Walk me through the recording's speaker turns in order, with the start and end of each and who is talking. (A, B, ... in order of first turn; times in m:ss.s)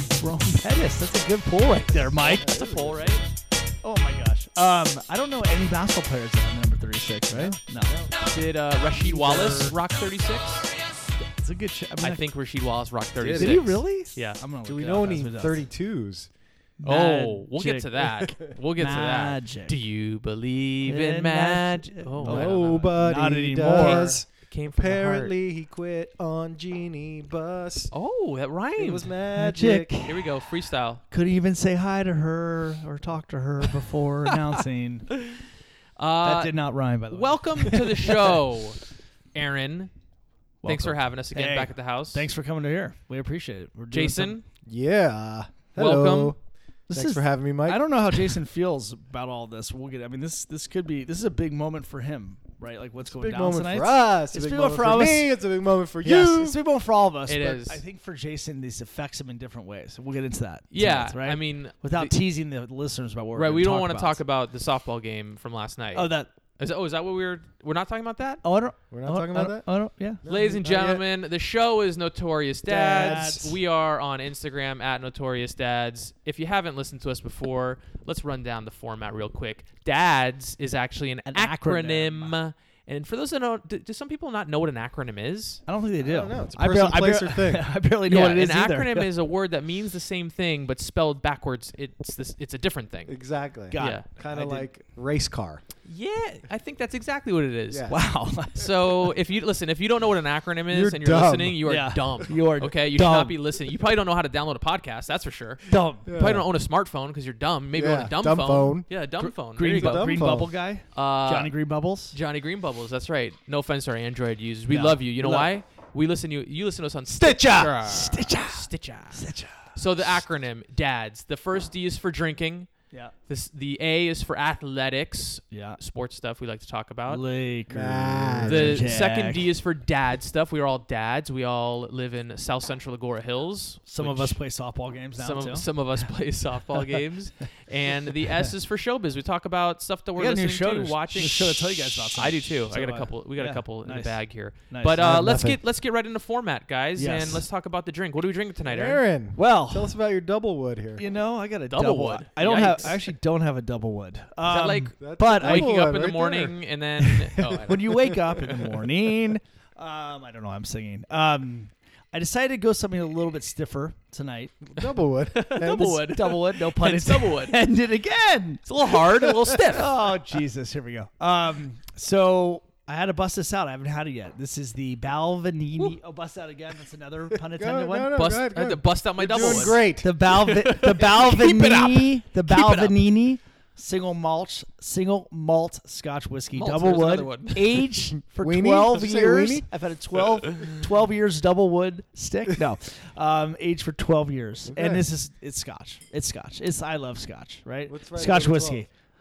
0:00.2-0:02.4 A
0:01.9-0:03.3 B
0:02.2-0:03.2 C
0:03.8-0:08.0 A
0:07.3-0:08.3 B
0:08.2-0:10.7 C
0:08.8-0:09.8 B
0:11.2-0:12.2 A
0:12.0-0:14.4 C
0:13.2-0:13.6 B
0:13.3-0:15.6 A
0:14.6-0:16.3 B
0:16.8-0:18.0 A
0:16.8-0:22.9 C
0:18.8-0:19.8 A
0:20.8-0:24.1 A
0:22.2-0:27.9 B
0:23.7-0:25.3 C
0:27.9-0:29.1 C
0:28.8-0:29.9 B
0:29.3-0:30.2 A
0:30.0-0:31.0 C
0:31.1-0:35.1 A
0:35.1-0:35.4 C
0:36.0-0:36.5 C
0:36.2-0:38.4 A
0:37.1-0:38.8 C
0:39.3-0:39.9 C
0:40.6-0:44.4 A
0:40.6-0:42.2 C
0:43.9-0:44.4 C
0:44.6-0:46.4 B
0:45.8-0:46.3 C
0:46.9-0:55.3 A
0:46.9-0:47.8 B
0:53.0-0:56.6 B
0:56.0-1:04.2 A
0:57.3-0:57.8 C
1:00.7-1:02.1 C
1:03.3-1:08.4 C
1:05.9-1:06.3 A
1:08.4-1:10.2 A
1:08.9-1:09.6 B
1:10.2-1:11.0 B
1:10.2-1:25.6 C
1:12.7-1:13.6 A
1:12.9-1:13.4 B
1:21.3-1:22.3 A
1:25.7-1:29.1 A
1:26.0-1:27.7 B
1:28.1-1:33.1 C
1:33.1-1:35.6 B
1:33.7-1:34.7 A
1:33.8-1:34.0 C
1:35.8-1:37.9 C
1:37.9-1:38.7 A
1:38.5-1:50.1 C
1:40.7-1:41.6 B
1:41.6-1:43.4 A
1:45.7-1:46.1 A
1:46.0-1:46.4 B
1:47.7-1:48.9 B
1:49.2-1:52.2 A
1:49.6-1:50.5 B
1:50.9-1:51.5 C
1:52.1-2:02.7 C
1:54.7-1:55.0 A
1:55.2-1:55.5 B
1:57.1-1:57.8 B
1:57.8-1:59.8 A
2:03.3-2:07.2 C
2:05.5-2:05.8 A
2:07.1-2:09.5 A
2:07.7-2:08.9 B
2:08.4-2:14.4 C
2:13.9-2:15.7 A
2:15.1-2:29.0 C
2:20.2-2:25.0 A
2:24.9-2:25.6 B
2:27.0-2:27.4 A
2:28.6-2:31.0 B
2:29.3-2:29.9 A
2:31.0-2:35.7 A
2:31.7-2:33.0 C
2:34.4-2:38.8 C
2:35.0-2:36.6 B
2:37.1-2:38.2 B
2:37.6-2:44.5 A
2:44.6-2:46.0 B
2:45.3-2:47.6 C
2:45.6-2:48.7 A
2:48.7-2:49.9 C
2:49.7-2:58.1 A
2:57.3-3:00.1 B
2:58.1-3:03.0 C
2:59.3-3:18.9 A
3:06.5-3:07.9 C
3:08.4-3:09.7 B
3:10.4-3:10.8 C
3:14.7-3:15.0 B
3:17.9-3:18.8 B